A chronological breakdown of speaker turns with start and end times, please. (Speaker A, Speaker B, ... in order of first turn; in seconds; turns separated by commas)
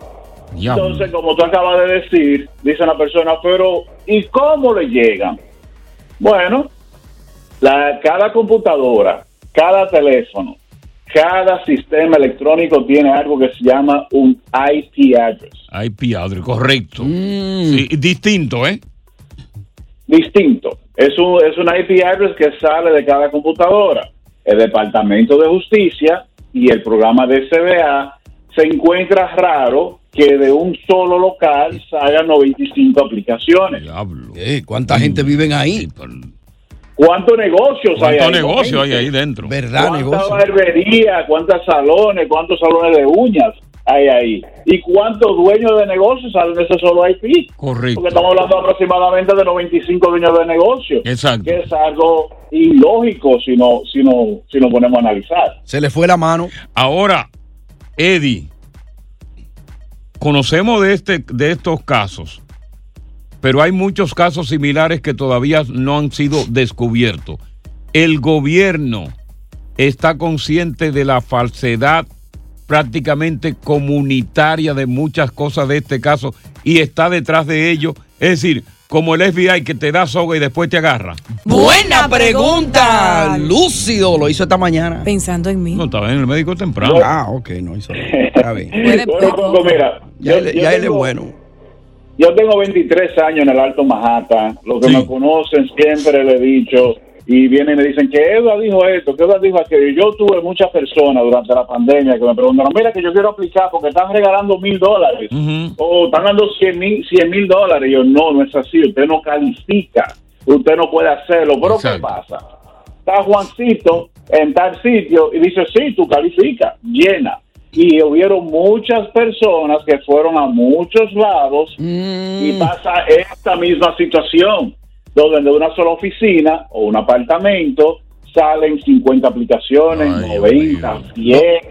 Speaker A: 0.5-1.1, Speaker B: 0.7-5.4, Speaker B: 6.2-6.7, Speaker B: 7.6-10.6, Speaker B: 11.1-15.6, Speaker A: 15.7-18.8, Speaker C: 17.0-17.8, Speaker B: 20.1-33.8, Speaker A: 33.7-34.4, Speaker C: 34.3-35.9, Speaker A: 34.9-36.3, Speaker B: 37.0-39.1, Speaker A: 37.9-39.5, Speaker C: 39.4-40.4, Speaker B: 39.7-55.5, Speaker A: 47.6-48.2, Speaker A: 51.0-51.7, Speaker C: 55.7-56.5, Speaker A: 56.7-57.3, Speaker A: 58.0-58.5, Speaker A: 60.2-62.4, Speaker A: 63.4-67.4, Speaker A: 67.9-69.1, Speaker A: 69.8-72.0, Speaker A: 72.7-81.2, Speaker D: 81.5-83.5, Speaker C: 81.5-85.1, Speaker D: 85.0-85.8, Speaker A: 85.7-87.1, Speaker B: 86.8-87.1, Speaker C: 87.0-88.8, Speaker B: 88.0-91.1, Speaker D: 88.8-89.8, Speaker C: 90.2-91.3, Speaker B: 92.2-112.4, Speaker A: 94.8-95.1, Speaker A: 105.3-105.8, Speaker A: 111.6-112.2, Speaker B: 113.0-121.8, Speaker C: 121.8-122.7, Speaker B: 122.4-131.6, Speaker A: 129.9-131.4